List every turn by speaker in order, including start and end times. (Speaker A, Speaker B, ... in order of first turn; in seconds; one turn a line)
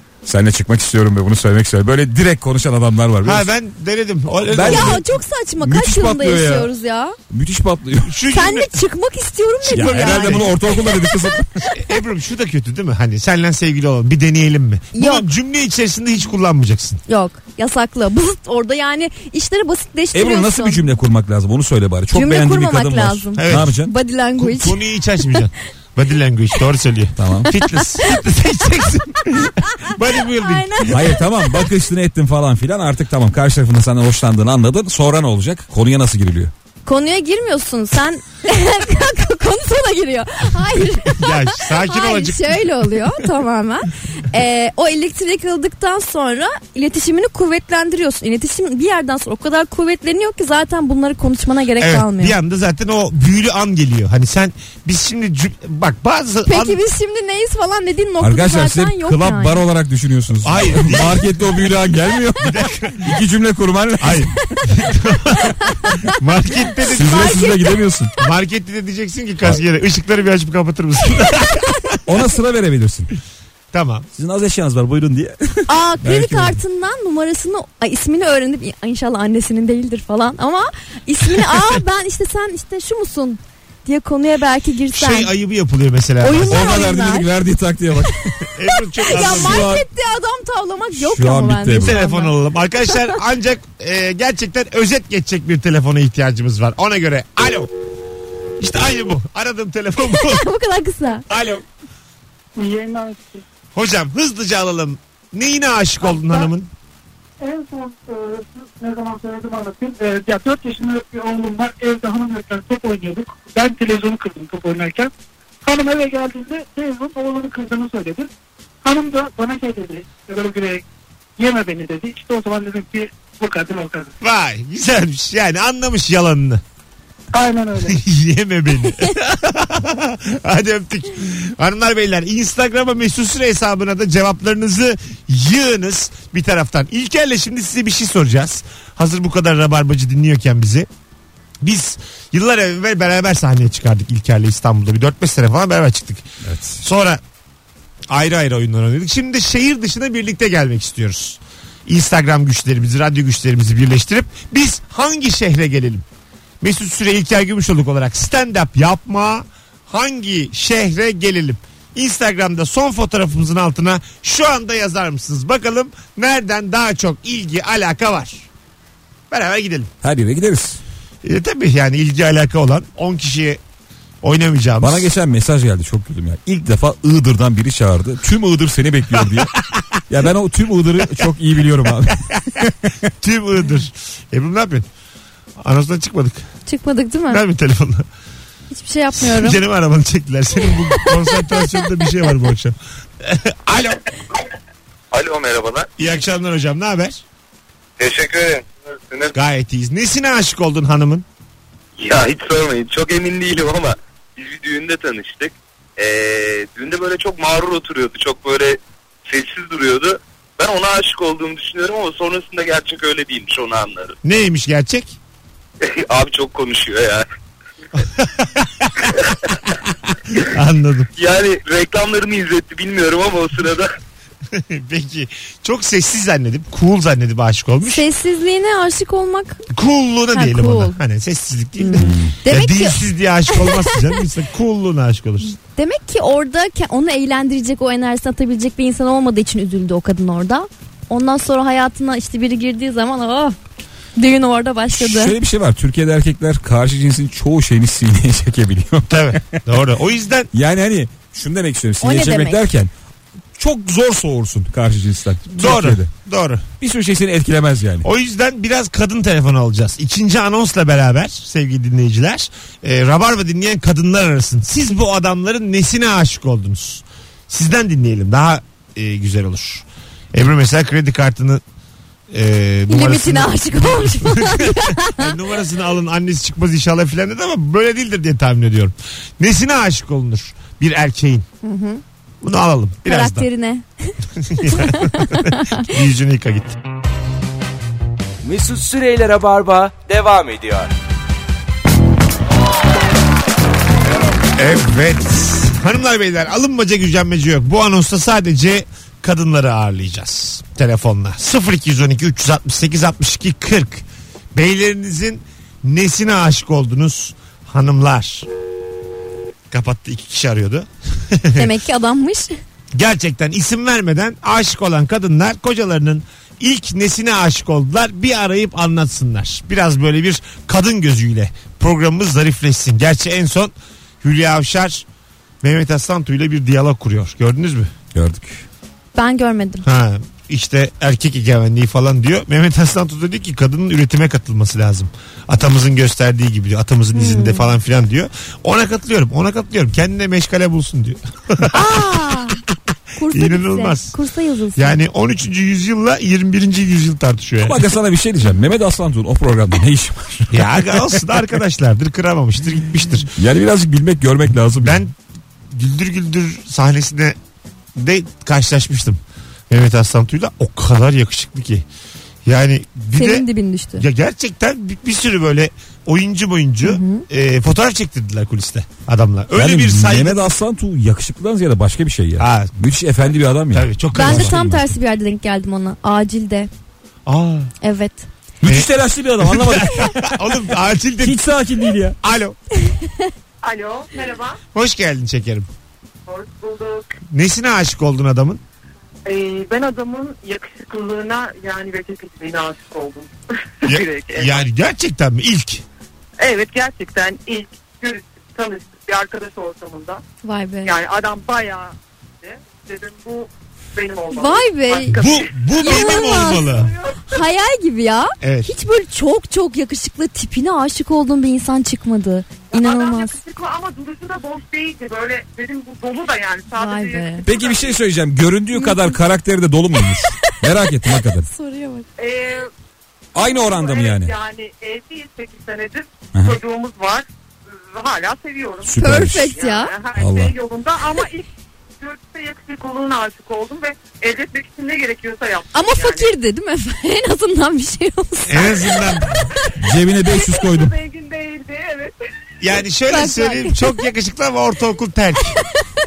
Speaker A: 0.2-3.5
Speaker B: 3.2-5.0
Speaker A: 4.5-5.1
Speaker C: 4.7-7.2
Speaker A: 5.6-6.7
Speaker A: 7.3-8.2
Speaker B: 8.1-8.7
Speaker C: 8.3-11.1
Speaker B: 9.7-10.5
Speaker A: 9.7-11.7
Speaker B: 11.8-17.0
Speaker C: 14.9-15.3
Speaker C: 17.1-20.9
Speaker A: 20.1-23.9
Speaker C: 22.1-24.8
Speaker B: 23.4-23.8
Speaker B: 24.4-31.1
Speaker A: 27.2-27.5
Speaker C: 27.8-28.2
Speaker C: 30.3-31.5
Speaker A: 30.9-36.5
Speaker C: 36.9-52.4
Speaker B: 41.1-43.0
Speaker B: 51.8-56.8
Speaker C: 56.5-59.6
Speaker A: 58.2-64.3
Speaker B: 60.4-61.3
Speaker B: 62.4-63.1
Speaker B: 64.0-65.5
Speaker B: 66.1-67.5
Speaker C: 66.8-67.7
Speaker A: 66.9-68.1
Speaker B: 68.2-72.0
Speaker A: 72.1-73.1
Speaker B: 73.7-74.1
Speaker A: 74.2-76.6
Speaker C: 75.7-85.3
Speaker B: 84.9-86.8
Speaker C: 86.2-87.3
Speaker A: 86.4-88.5
Speaker B: 88.5-89.7
Speaker C: 88.7-92.3
Speaker A: 89.1-89.9
Speaker A: 91.0-92.0
Speaker B: 91.8-97.7
Speaker B: 98.6-100.5
Speaker C: 100.0-101.2
Speaker B: 101.3-101.7
Speaker D: 102.6-103.4
Speaker B: 103.7-106.7
Speaker D: 106.0-106.5
Speaker D: 107.4-115.1
Speaker D: 115.6-118.3
Speaker D: 118.8-120.8
Speaker D: 121.4-124.1
Speaker B: 124.2-126.6
Speaker D: 127.3-128.0
Speaker B: 127.8-140.9
Speaker B: 141.6-146.3
Speaker A: 146.4-146.8
Speaker B: 146.8-147.2
Speaker B: 148.1-156.1
Speaker B: 156.6-168.5
Speaker B: 169.3-169.9
Speaker A: 170.0-170.8
Speaker B: 171.2-173.6
Speaker B: 174.2-175.1
Speaker A: 174.8-179.5
Speaker A: 180.1-182.9
Speaker B: 183.2-184.9
Speaker B: 185.6-186.5
Speaker C: 186.7-187.4
Speaker B: 187.3-188.1
Speaker C: 188.7-189.6
Speaker B: 189.2-194.0
Speaker C: 190.9-191.3
Speaker E: 195.1-195.9
Speaker B: 196.0-197.2
Speaker E: 198.0-199.3
Speaker B: 199.3-201.3
Speaker E: 202.0-214.2
Speaker B: 214.2-215.2
Speaker E: 215.8-217.3
Speaker B: 218.1-218.9
Speaker E: 219.1-219.3
Speaker B: 220.4-221.1
Speaker E: 221.2-223.9
Speaker B: 224.5-228.0
Speaker C: 227.8-229.6
Speaker B: 229.7-235.5
Speaker C: 230.3-231.0
Speaker C: 231.8-234.1
Speaker A: 232.0-232.3
Speaker C: 235.8-243.6
Speaker C: 244.2-245.4
Speaker A: 244.9-249.6
Speaker B: 249.1-250.5
Speaker A: 250.5-252.9
Speaker C: 252.0-252.6
Speaker A: 253.6-256.1
Speaker B: 255.6-256.6
Speaker A: 256.8-258.1
Speaker B: 258.0-271.6
Speaker B: 272.3-281.5
Speaker C: 272.9-275.3
Speaker C: 281.6-282.0
Speaker B: 282.4-283.5
Speaker C: 283.1-285.9
Speaker B: 284.4-286.8
Speaker F: 288.4-290.9
Speaker B: 294.6-308.5
Speaker B: 309.7-311.7
Speaker C: 311.6-312.6
Speaker B: 312.9-325.1
Speaker B: 325.6-327.9
Speaker A: 328.1-328.6
Speaker C: 329.1-329.9
Speaker B: 329.8-341.8
Speaker C: 337.1-337.7
Speaker C: 341.7-342.6
Speaker C: 343.2-345.0
Speaker B: 343.3-344.2
Speaker B: 344.8-347.8
Speaker A: 347.6-350.6
Speaker B: 350.5-353.3
Speaker A: 353.4-355.0
Speaker B: 354.8-355.1
Speaker B: 355.7-357.4
Speaker B: 358.0-361.9
Speaker B: 362.4-370.5
Speaker C: 363.1-364.1
Speaker C: 366.8-367.2
Speaker A: 369.5-374.9
Speaker B: 372.4-372.7
Speaker B: 373.7-374.6
Speaker C: 374.1-376.7
Speaker B: 377.3-377.7
Speaker C: 377.8-378.3
Speaker A: 378.6-380.3
Speaker B: 378.7-381.4
Speaker A: 381.2-382.2
Speaker B: 382.2-382.6
Speaker C: 382.9-383.3
Speaker G: 383.6-384.6
Speaker B: 384.7-385.7
Speaker G: 386.3-387.2
Speaker B: 387.3-388.6
Speaker G: 389.3-393.3
Speaker G: 393.8-394.6
Speaker B: 393.9-395.8
Speaker G: 396.4-400.2
Speaker C: 400.4-401.0
Speaker G: 400.8-407.4
Speaker C: 404.3-405.2
Speaker B: 405.1-406.9
Speaker C: 405.8-406.7
Speaker C: 407.2-413.4
Speaker B: 408.4-408.7
Speaker G: 412.7-418.0
Speaker C: 416.7-417.5
Speaker A: 417.4-421.5
Speaker C: 418.7-419.2
Speaker C: 421.1-422.1
Speaker G: 422.2-422.7
Speaker A: 423.3-424.4
Speaker G: 423.4-431.5
Speaker A: 426.3-426.6
Speaker A: 428.9-429.6
Speaker C: 429.0-429.9
Speaker A: 430.1-430.5
Speaker G: 432.0-436.3
Speaker C: 435.7-439.3
Speaker B: 438.5-439.4
Speaker A: 439.8-441.0
Speaker G: 440.2-442.2
Speaker B: 442.6-445.6
Speaker C: 443.1-444.1